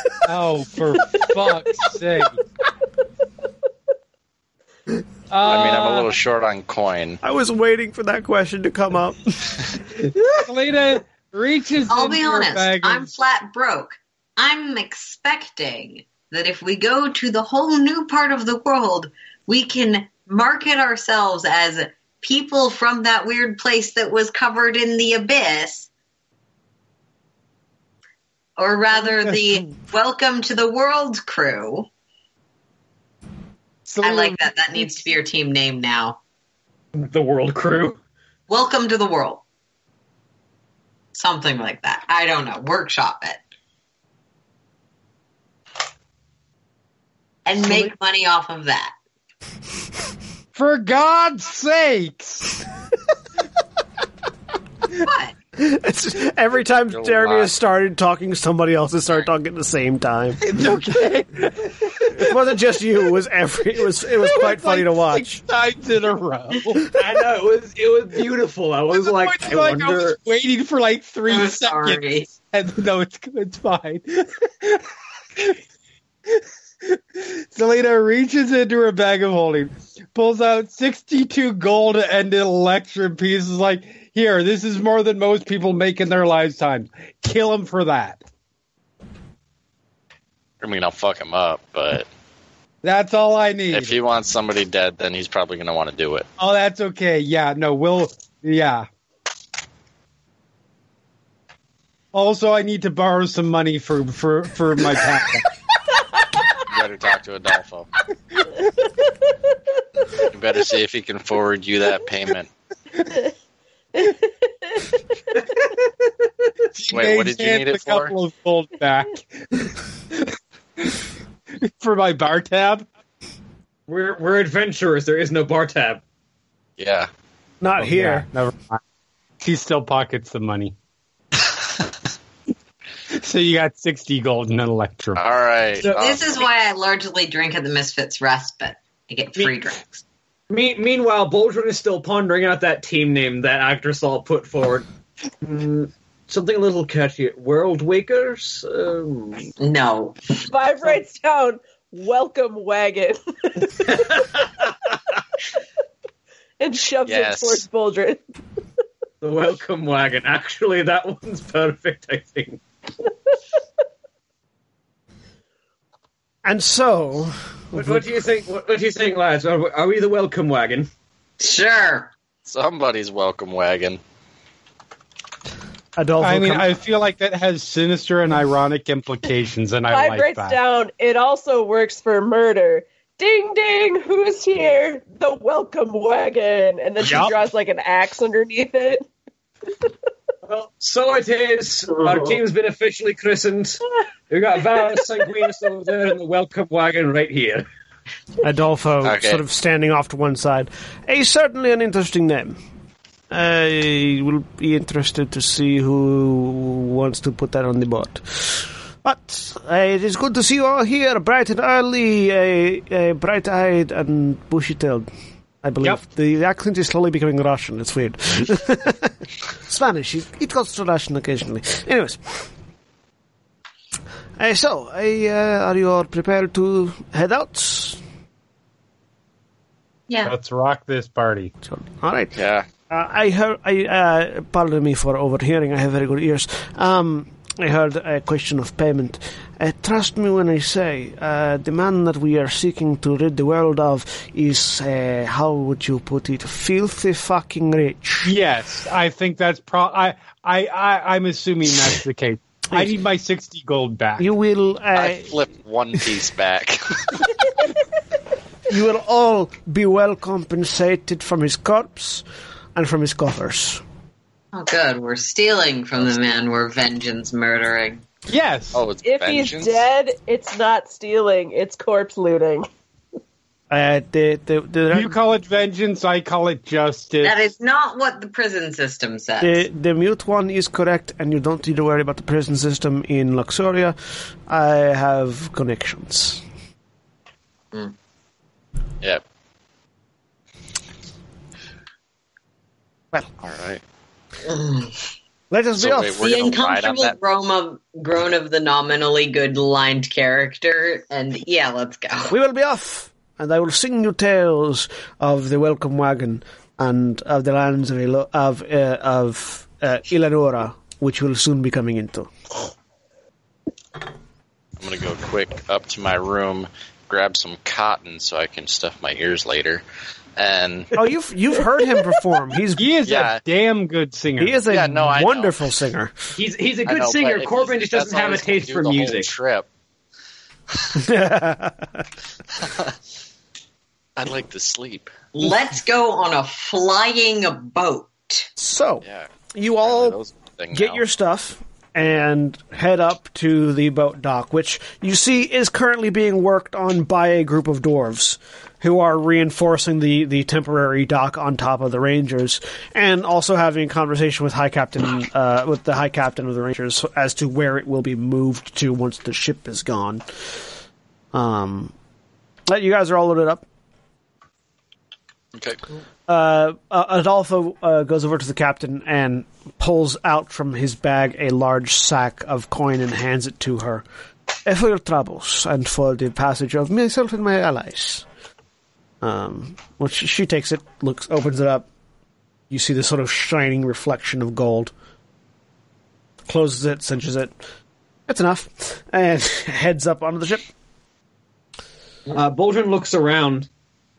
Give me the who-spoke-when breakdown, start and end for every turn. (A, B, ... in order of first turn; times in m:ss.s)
0:00.2-0:02.4 A
0:05.3-0:06.1 A
0:05.4-0:07.2 B
0:07.2-0:09.6 C
0:10.3-0:13.1 A
0:11.9-0:25.9 D
0:28.6-0:31.9 D
0:33.9-0:34.4 A
0:34.0-0:36.2 D
0:36.9-0:38.0 E
0:38.5-0:39.4 D
0:41.1-0:43.4 D
0:47.4-0:48.9 D
0:50.5-0:52.6 A
0:55.0-0:55.3 D
0:55.6-1:00.4 C
0:56.8-0:57.5 B
1:00.4-1:02.3 A
1:02.1-1:05.4 C
1:04.2-1:06.8 A
1:06.8-1:10.2 E
1:08.9-1:14.8 A
1:11.3-1:12.3 D
1:16.3-1:28.2 A
1:30.6-1:32.1 B
1:32.8-1:34.0 A
1:33.7-1:36.3 B
1:36.4-1:38.9 A
1:42.1-1:45.4 A
1:46.7-1:47.9 B
1:50.2-1:52.5 B
1:54.0-1:55.0 F
1:56.8-1:58.1 B
1:56.9-2:01.0 A
2:01.6-2:02.8 A
2:03.9-2:06.0 E
2:06.8-2:07.1 B
2:07.6-2:08.3 C
2:07.8-2:08.8 A
2:09.4-2:10.7 A
2:13.1-2:15.2 A
2:15.2-2:16.2 B
2:15.8-2:16.2 E
2:15.9-2:19.9 D
2:20.5-2:24.8 E
2:25.4-2:29.5 E
2:29.6-2:30.4 D
2:30.5-2:34.0 F
2:33.8-2:34.7 E
2:36.6-2:38.2 F
2:37.0-2:37.6 B
2:39.2-2:42.6 E
2:46.4-2:48.1 C
2:47.7-2:50.9 E
2:51.4-2:52.1 D
2:52.4-2:54.0 B
2:56.0-2:56.7 C
2:56.2-3:00.6 A
2:59.9-3:09.0 F
3:07.0-3:07.3 A
3:10.4-3:17.7 E
3:18.4-3:22.6 C
3:19.0-3:19.4 B
3:23.3-3:35.1 C
3:35.6-3:42.5 C
3:44.4-3:48.0 C
3:50.1-3:50.3 D
3:50.2-3:51.5 A
3:51.6-3:52.4 C
3:52.3-3:52.7 B
3:52.9-4:08.3 C
4:08.2-4:14.3 A
4:14.2-4:15.3 C
4:14.9-4:17.2 B
4:18.7-4:22.2 C
4:22.7-4:23.8 C
4:24.5-4:28.0 D
4:28.3-4:28.8 A
4:28.7-4:29.8 B
4:29.0-4:32.7 F
4:33.7-4:35.1 C
4:34.9-4:37.4 A
4:37.2-4:39.6 D
4:39.4-4:46.4 C
4:53.4-4:53.8 B
4:54.4-4:55.0 D
4:55.5-4:56.2 C
4:55.8-4:57.2 B
4:56.2-5:02.3 D
5:02.3-5:12.3 C
5:14.8-5:19.8 B
5:20.4-5:20.9 B
5:20.9-5:22.8 C
5:22.8-5:24.7 A
5:23.0-5:23.4 B
5:24.4-5:26.2 C
5:24.7-5:25.7 B
5:26.4-5:29.3 E
5:26.8-5:29.7 B
5:30.9-5:32.1 C
5:32.6-5:32.9 B
5:34.2-5:35.1 B
5:35.3-5:38.5 D
5:38.6-5:39.0 C
5:39.0-5:39.3 B
5:39.5-5:40.2 C
5:39.8-5:41.0 B
5:40.7-6:00.2 C
6:01.3-6:01.9 C
6:02.7-6:03.6 C
6:05.5-6:05.8 B
6:06.3-6:14.0 C
6:14.6-6:18.2 C
6:19.2-6:21.8 C
6:22.7-6:24.9 C
6:26.5-6:27.6 C
6:28.3-6:30.7 C
6:32.3-6:33.7 E